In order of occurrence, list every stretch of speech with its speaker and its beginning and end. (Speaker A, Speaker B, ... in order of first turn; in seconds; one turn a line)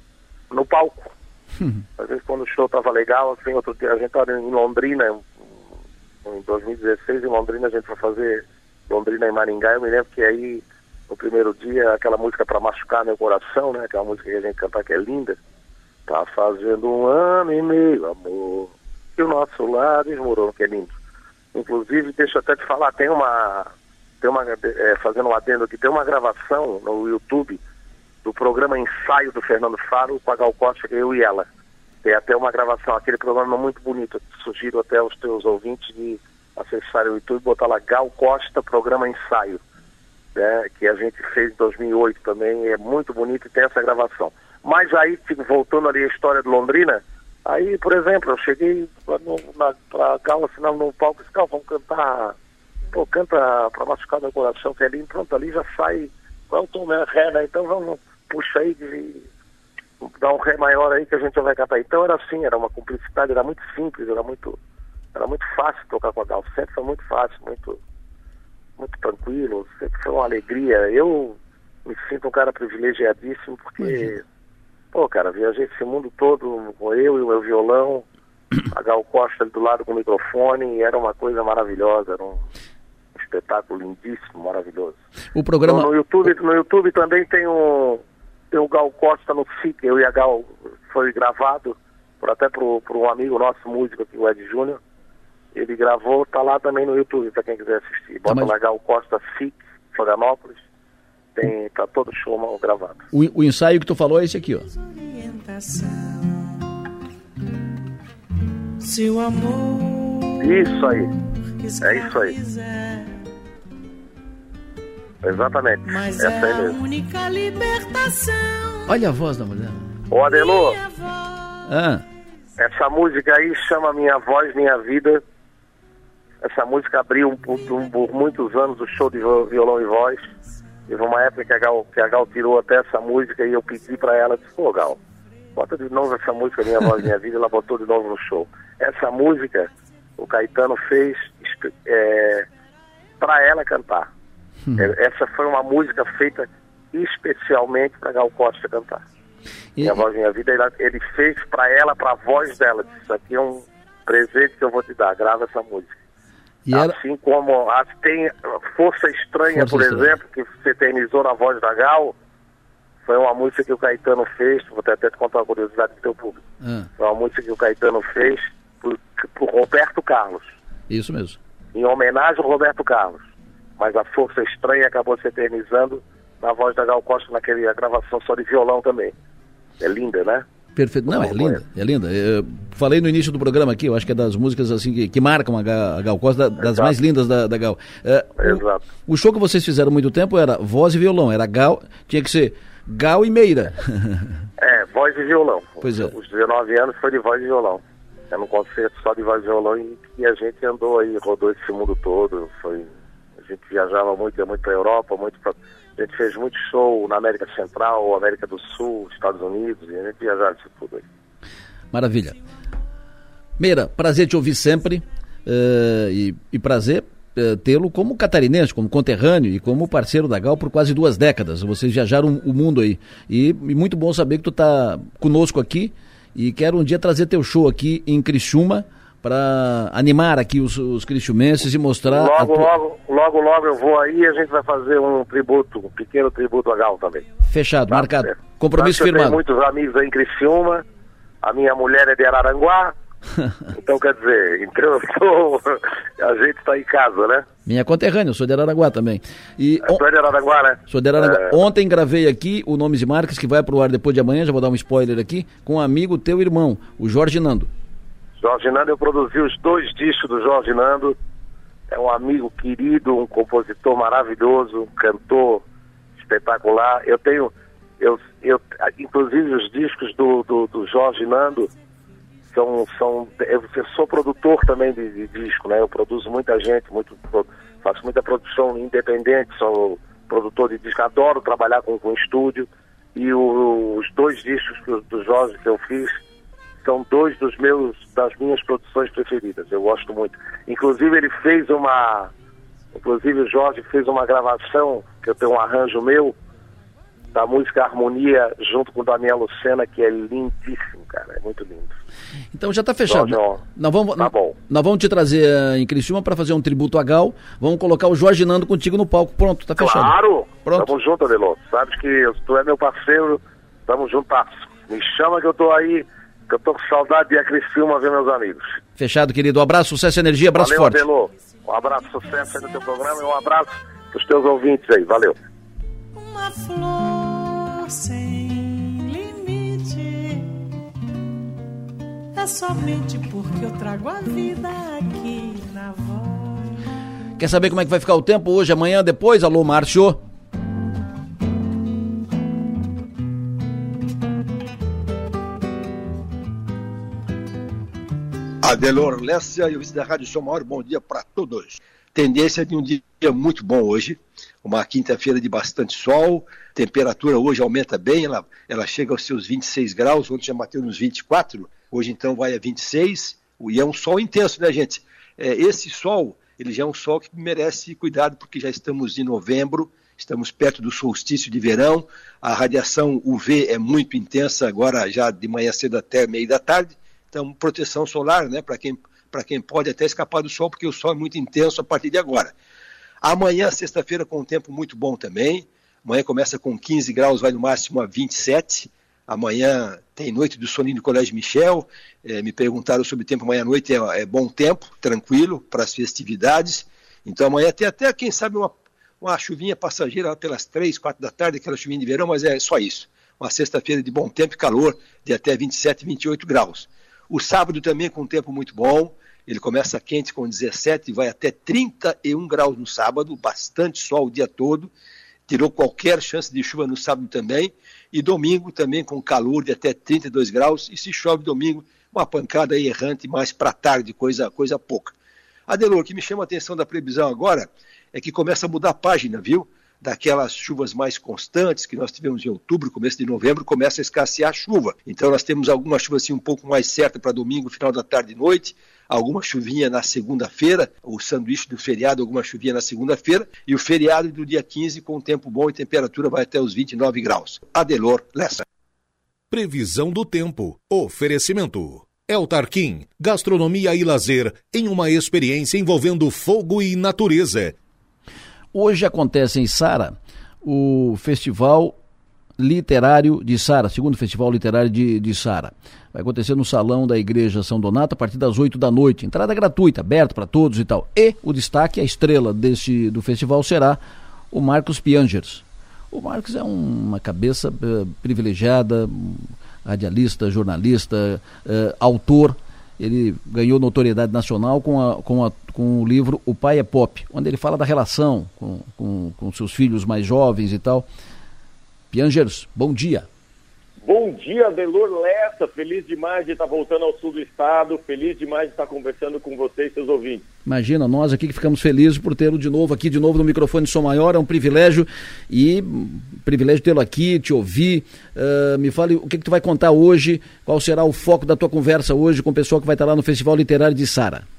Speaker A: 0.5-1.1
Speaker B: 1.6-1.8
Speaker A: 2.0-5.6
Speaker A: 6.2-15.4
Speaker A: 16.1-20.9
Speaker A: 21.5-27.6
Speaker A: 28.2-31.4
Speaker A: 32.0-39.6
Speaker A: 40.3-52.4
Speaker A: 52.9-59.3
Speaker A: 60.0-64.6
Speaker A: 65.1-67.8
Speaker A: 68.8-74.2
Speaker B: 73.8-74.1
Speaker A: 74.9-78.0
Speaker A: 78.7-82.4
Speaker A: 83.1-85.0
Speaker B: 85.3-86.3
Speaker A: 85.6-94.8
Speaker A: 95.5-100.6
Speaker B: 98.3-98.5
Speaker A: 101.3-103.0
Speaker B: 103.1-104.7
Speaker C: 104.7-106.5
Speaker C: 108.8-110.8
Speaker A: 110.4-111.1
Speaker C: 111.6-113.2
Speaker A: 111.8-112.3
Speaker A: 115.2-116.7
Speaker C: 115.8-119.0
Speaker B: 118.9-119.9
Speaker A: 120.1-120.8
Speaker C: 120.2-122.0
Speaker B: 121.7-122.0
Speaker A: 122.6-125.2
Speaker A: 126.4-130.2
Speaker A: 130.9-135.0
Speaker A: 135.5-142.5
Speaker A: 143.2-144.1
Speaker B: 144.6-144.9
Speaker A: 144.8-149.0
Speaker B: 149.8-150.0
Speaker A: 149.8-155.9
Speaker B: 156.7-157.0
Speaker A: 156.7-162.1
Speaker B: 159.5-160.1
Speaker A: 163.0-166.4
Speaker B: 166.6-166.9
Speaker A: 167.0-170.5
Speaker B: 170.9-171.4
Speaker A: 171.7-173.2
Speaker A: 173.8-179.1
Speaker A: 179.8-180.4
Speaker B: 180.7-194.4
Speaker A: 181.1-181.6
Speaker A: 186.6-186.9
Speaker A: 188.4-188.8
Speaker A: 194.6-202.9
Speaker B: 195.8-196.1
Speaker A: 203.4-211.0
Speaker B: 211.9-212.4
Speaker B: 213.6-232.7
Speaker A: 232.1-237.3
Speaker B: 237.4-239.4
Speaker A: 237.9-240.8
Speaker A: 241.4-242.9
Speaker A: 243.8-247.4
Speaker B: 247.6-250.0
Speaker A: 249.8-251.6
Speaker B: 250.9-257.7
Speaker A: 258.4-261.1
Speaker A: 261.9-265.6
Speaker A: 266.2-271.7
Speaker A: 272.4-286.2
Speaker A: 286.8-292.3
Speaker A: 292.9-296.3
Speaker A: 297.3-301.9
Speaker B: 302.5-310.9
Speaker A: 303.1-303.6
Speaker A: 304.2-304.6
Speaker A: 309.8-318.8
Speaker B: 319.0-321.1
Speaker A: 320.5-325.4
Speaker C: 321.8-323.4
Speaker C: 326.1-330.5
Speaker C: 332.3-336.8
Speaker B: 337.4-340.2
Speaker D: 348.6-382.5
Speaker D: 383.2-414.9
Speaker D: 415.5-425.1
Speaker D: 425.7-448.6
Speaker E: 449.5-457.8
Speaker B: 458.7-462.0
Speaker B: 462.6-474.0
Speaker B: 474.5-491.1
Speaker B: 492.1-493.3
Speaker F: 494.0-500.4
Speaker B: 500.6-514.4